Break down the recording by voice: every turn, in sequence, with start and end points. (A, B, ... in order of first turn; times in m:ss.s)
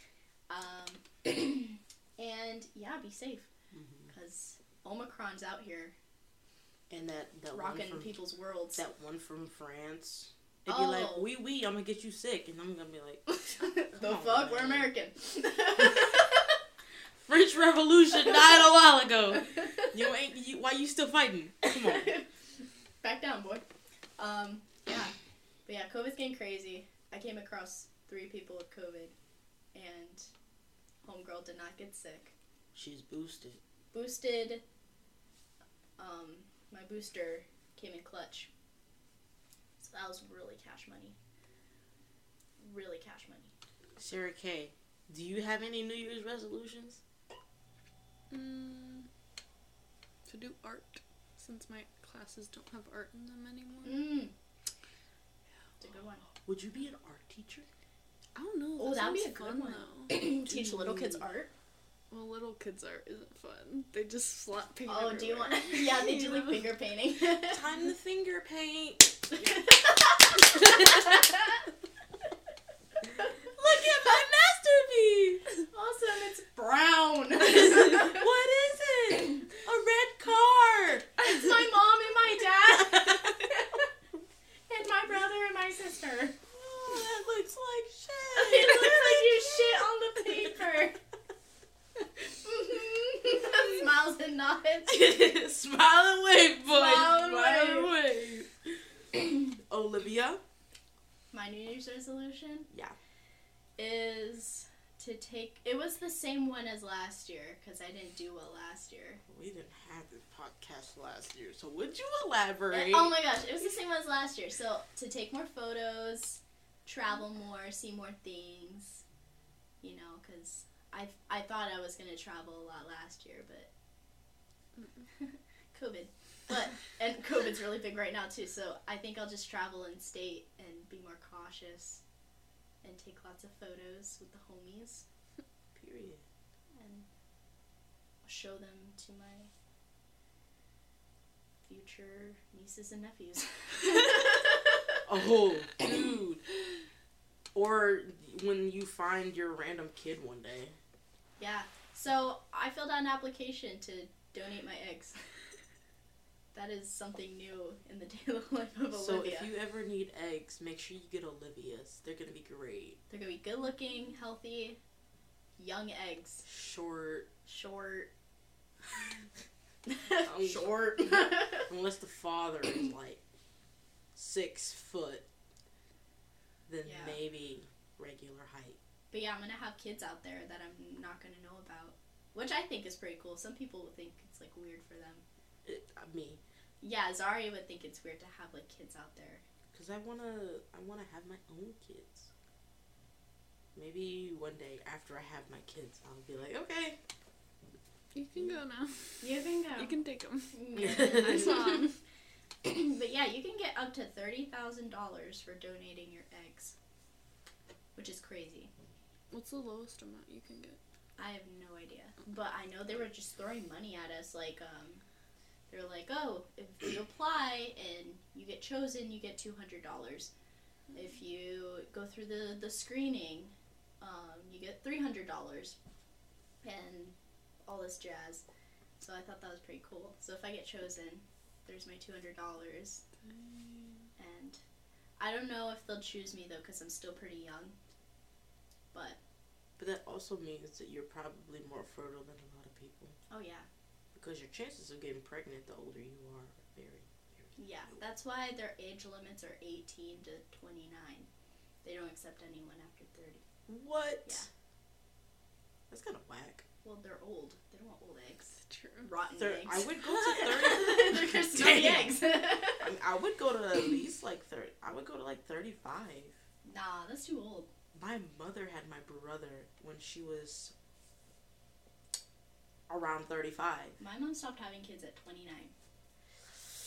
0:00.5-0:03.5 A
0:03.7-0:04.1 B
0:04.1-0:06.0 A
0:06.9-0:08.2 B
0:07.5-0:08.8 A
0:08.8-0:13.2 B
0:10.7-0:11.3 A
0:13.3-0:16.5 A
0:13.9-0:14.9 B
0:15.8-0:16.1 B
0:17.2-0:22.2 B
0:19.6-0:19.9 A
0:21.7-0:22.3 A
0:23.0-0:23.6 A
0:24.2-0:25.1 A
0:25.7-0:29.1 A
0:29.7-0:30.3 A
0:31.0-0:32.3 A
0:32.7-0:33.6 B
0:33.9-0:34.6 A
0:36.0-0:38.5 A
0:39.8-0:41.2 A
0:42.6-0:43.5 A
0:44.0-0:47.0 B
0:48.3-0:49.1 C
0:50.3-0:54.1 C
0:53.8-0:54.3 A
0:55.8-0:56.2 A
0:56.4-0:57.7 B
0:58.4-1:00.4 C
0:58.8-1:01.5 A
1:00.4-1:01.2 B
1:02.1-1:06.6 C
1:04.9-1:07.6 A
1:07.4-1:09.7 B
1:09.3-1:11.4 A
1:10.4-1:11.3 B
1:13.4-1:15.4 B
1:15.7-1:18.3 A
1:17.4-1:21.1 B
1:21.2-1:23.9 A
1:22.7-1:23.5 B
1:24.7-1:26.4 A
1:26.5-1:29.9 B
1:28.4-1:31.0 A
1:32.0-1:35.1 A
1:34.9-1:38.5 B
1:36.7-1:37.9 A
1:39.1-1:40.4 B
1:41.3-1:42.7 A
1:42.7-1:43.0 B
1:43.8-1:49.2 A
1:49.3-1:53.2 B
1:52.7-1:59.0 A
1:59.8-2:03.7 A
2:04.8-2:05.0 C
2:05.2-2:12.0 A
2:12.8-2:15.0 A
2:15.8-2:16.2 B
2:16.8-2:17.1 A
2:18.2-2:19.5 A
2:21.7-2:25.0 A
2:25.1-2:26.4 B
2:27.5-2:30.8 B
2:31.4-2:35.2 A
2:36.5-2:39.5 A
2:38.9-2:43.0 B
2:43.1-2:44.8 A
2:45.6-2:46.4 A
2:46.5-2:47.3 B
2:47.5-2:48.1 A
2:49.9-2:51.7 A
2:50.2-2:53.2 B
2:54.2-2:55.2 B
2:56.7-2:58.8 B
2:56.8-2:57.2 A
2:59.1-3:05.2 A
3:05.6-3:06.4 B
3:06.8-3:09.4 A
3:09.7-3:12.3 B
3:13.8-3:17.0 B
3:18.1-3:22.0 C
3:19.2-3:20.0 A
3:20.5-3:21.9 A
3:20.8-3:21.8 B
3:22.6-3:26.8 A
3:28.0-3:28.7 A
3:29.3-3:30.8 C
3:31.2-3:35.0 A
3:35.7-3:40.3 A
3:40.9-3:45.8 A
3:46.6-3:47.2 A
3:47.7-3:48.4 A
3:49.0-3:53.0 A
3:53.3-3:54.1 C
3:54.2-3:54.6 A
3:55.2-3:57.8 A
3:58.9-3:59.2 A
3:59.8-4:03.2 B
4:03.3-4:03.7 A
4:04.2-4:07.5 B
4:07.6-4:11.3 A
4:11.8-4:13.4 A
4:13.7-4:14.5 B
4:15.9-4:16.6 B
4:16.8-4:22.9 A
4:18.7-4:19.1 C
4:19.4-4:22.2 B
4:22.7-4:26.4 B
4:26.6-4:27.7 A
4:27.9-4:30.7 B
4:32.9-4:34.0 B
4:34.0-4:35.7 A